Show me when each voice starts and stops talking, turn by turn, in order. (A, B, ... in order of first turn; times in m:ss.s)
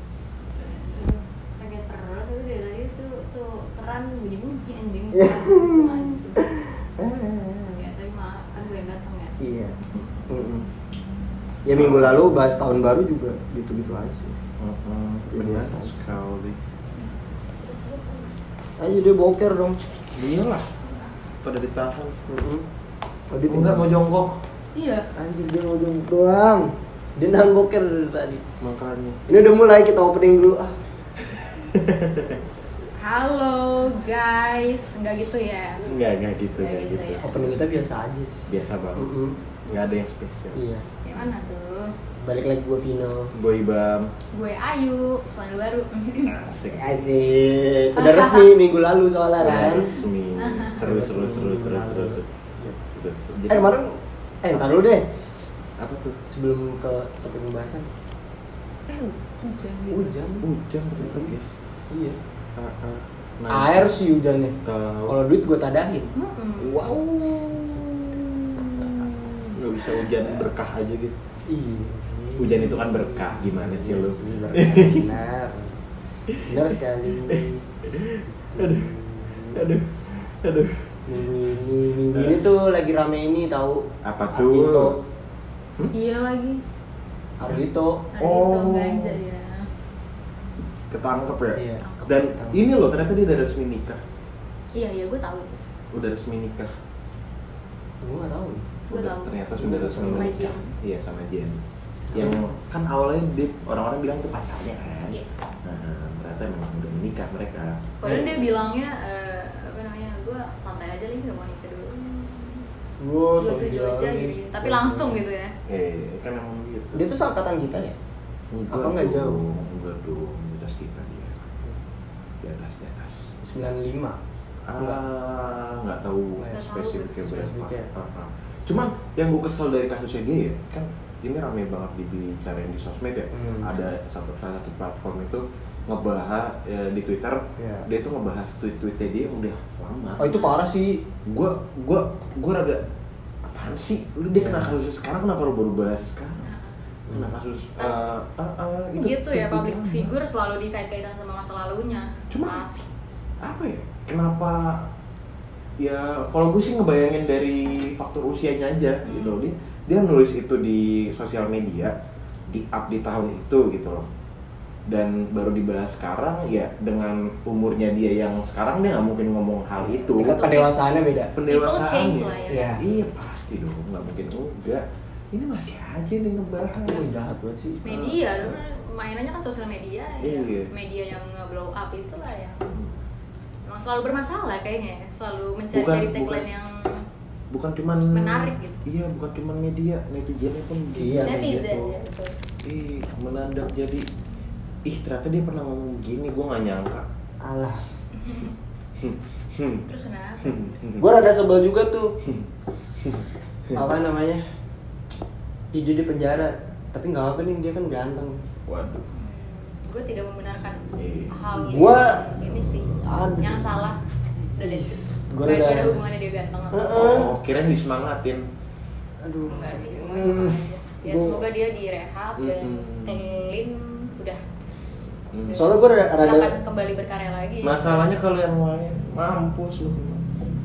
0:00.6-0:06.6 A
0:05.2-0:07.8 B
0:07.8-0:09.4 A
0:09.4-0:09.8 B
0:09.9-0:10.2 C
0:10.3-0:10.7 B
0:11.6-0:14.4 B
0:11.7-0:12.3 C
0:14.6-0:16.6 C
0:15.3-0:15.9 B
0:17.7-0:18.3 A
0:18.8-0:19.8 B
0:20.1-0:20.7 C
0:21.4-0:22.2 C
0:22.3-0:22.7 B
0:23.3-0:23.9 B
0:23.5-0:24.4 C
0:24.8-0:25.1 A
0:25.2-0:28.4 B
0:28.6-0:29.2 C
0:29.3-0:30.8 B
0:31.6-0:32.4 C
0:33.0-0:35.9 A
0:35.8-0:37.4 C
0:36.6-0:37.3 A
0:37.2-0:39.4 B
0:38.5-0:40.6 C
0:40.5-0:40.9 B
0:41.0-0:41.9 A
0:42.2-0:43.3 B
0:43.4-0:44.1 C
0:44.3-0:46.4 A
0:46.2-0:46.9 C
0:46.7-0:50.0 B
0:47.9-0:48.5 A
0:49.4-0:52.3 C
0:50.4-0:50.8 A
0:50.8-0:52.9 B
0:52.9-0:53.8 C
0:53.5-0:55.2 B
0:55.8-0:56.2 C
0:56.3-0:57.9 B
0:58.9-1:00.1 A
0:59.9-1:01.4 B
1:00.4-1:01.6 C
1:01.9-1:02.2 B
1:02.6-1:04.0 C
1:03.5-1:06.1 B
1:04.6-1:05.2 C
1:06.2-1:07.0 A
1:06.6-1:09.0 C
1:08.8-1:09.4 B
1:09.5-1:11.2 C
1:10.1-1:10.4 B
1:11.5-1:15.8 B
1:12.4-1:15.1 C
1:16.3-1:16.6 C
1:16.4-1:17.6 B
1:17.2-1:18.9 C
1:18.3-1:19.7 B
1:19.5-1:20.9 C
1:21.1-1:25.0 B
1:22.1-1:22.4 C
1:24.0-1:25.0 C
1:25.9-1:26.6 A
1:27.4-1:28.1 B
1:28.1-1:29.7 A
1:28.2-1:29.2 C
1:30.9-1:34.0 C
1:31.6-1:32.6 B
1:31.8-1:32.2 A
1:34.8-1:35.6 A
1:35.9-1:36.7 C
1:38.0-1:38.8 B
1:38.9-1:39.4 A
1:38.9-1:41.6 C
1:39.6-1:40.4 B
1:39.9-1:40.6 A
1:42.1-1:42.5 B
1:42.1-1:47.9 C
1:48.0-1:52.7 A
1:48.0-1:48.4 B
1:53.0-1:55.2 B
1:53.4-1:55.6 A
1:55.7-1:57.0 C
1:56.9-1:58.0 B
1:58.5-2:01.5 C
1:58.7-1:59.4 B
2:02.4-2:03.4 C
2:03.4-2:04.2 B
2:04.7-2:20.5 C
2:06.4-2:06.6 B
2:06.5-2:07.2 A
2:07.3-2:07.9 B
2:13.3-2:13.8 B
2:17.6-2:17.9 B
2:20.2-2:21.0 B
2:21.3-2:22.8 C
2:23.5-2:26.5 C
2:24.3-2:24.8 B
2:26.4-2:26.8 A
2:27.1-2:30.1 C
2:27.8-2:28.1 A
2:29.0-2:32.9 A
2:32.3-2:32.7 C
2:33.4-2:34.9 C
2:35.8-2:42.0 C
2:39.0-2:39.5 A
2:42.5-2:44.1 C
2:44.9-2:50.4 C
2:49.8-2:51.4 B
2:50.2-2:50.7 A
2:51.4-2:57.1 C
2:51.5-2:52.8 A
2:52.5-2:52.8 B
2:56.8-2:57.9 B
2:57.8-3:02.7 A
2:57.9-2:58.6 C
3:00.2-3:00.7 C
3:03.7-3:07.0 A
3:05.7-3:06.5 C
3:07.5-3:11.4 C
3:08.1-3:08.8 A
3:11.0-3:12.0 B
3:11.2-3:12.3 A
3:12.6-3:14.1 C
3:14.8-3:17.1 C
3:17.4-3:17.9 B
3:18.2-3:18.5 A
3:19.0-3:19.8 C
3:19.9-3:20.8 A
3:20.4-3:21.1 C
3:21.0-3:22.2 B
3:23.0-3:23.9 C
3:23.8-3:24.5 B
3:25.7-3:28.4 B
3:28.7-3:29.1 C
3:29.1-3:34.0 A
3:31.0-3:31.4 C
3:31.5-3:33.9 B
3:34.5-3:36.0 B
3:34.6-3:37.2 A
3:36.7-3:37.4 B
3:36.9-3:38.5 C
3:39.2-3:41.4 B
3:39.4-3:44.4 A
3:42.4-3:43.2 C
3:45.3-3:45.7 C
3:45.5-3:46.6 B
3:45.5-3:48.1 A
3:47.6-3:50.3 C